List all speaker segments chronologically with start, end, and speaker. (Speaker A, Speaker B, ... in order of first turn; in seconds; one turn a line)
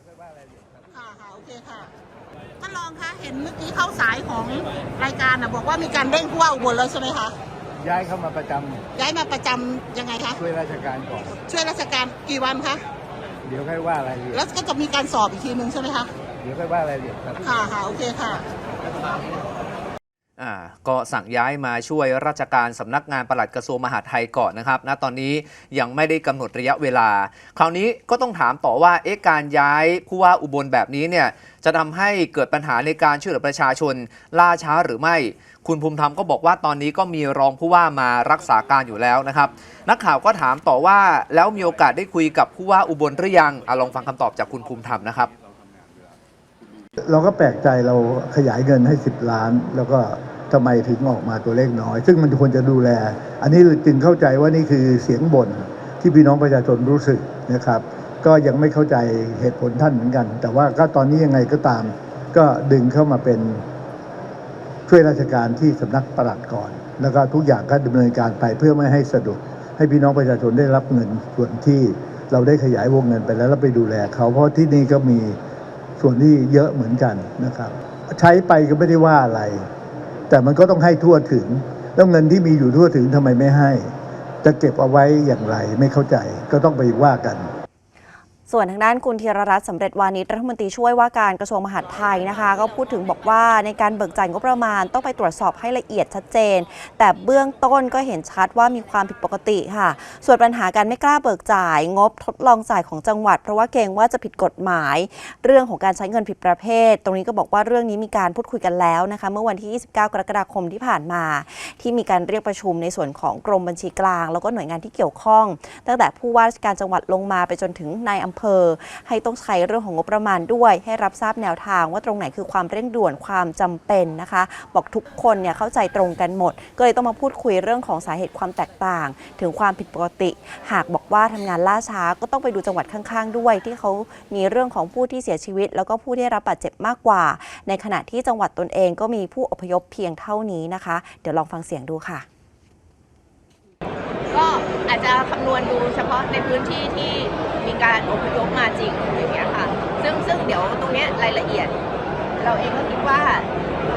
Speaker A: 0.9-1.9
Speaker A: 2.6-7.3
Speaker B: 7.8-8.8
Speaker A: 9.0-10.4
Speaker B: 10.4-11.4
Speaker A: 11.5-12.8
Speaker B: 13.4-14.4
Speaker A: 14.3-16.1
Speaker B: 16.4-17.6
Speaker A: 17.4-18.4
Speaker C: 20.4-45.3
Speaker B: 47.0-63.6
Speaker B: 64.9-75.4
Speaker B: 76.0-79.7
Speaker B: 80.3-83.9
Speaker B: 84.4-87.5
Speaker D: 88.5-142.2
Speaker E: 144.3-151.7
Speaker E: 152.4-153.5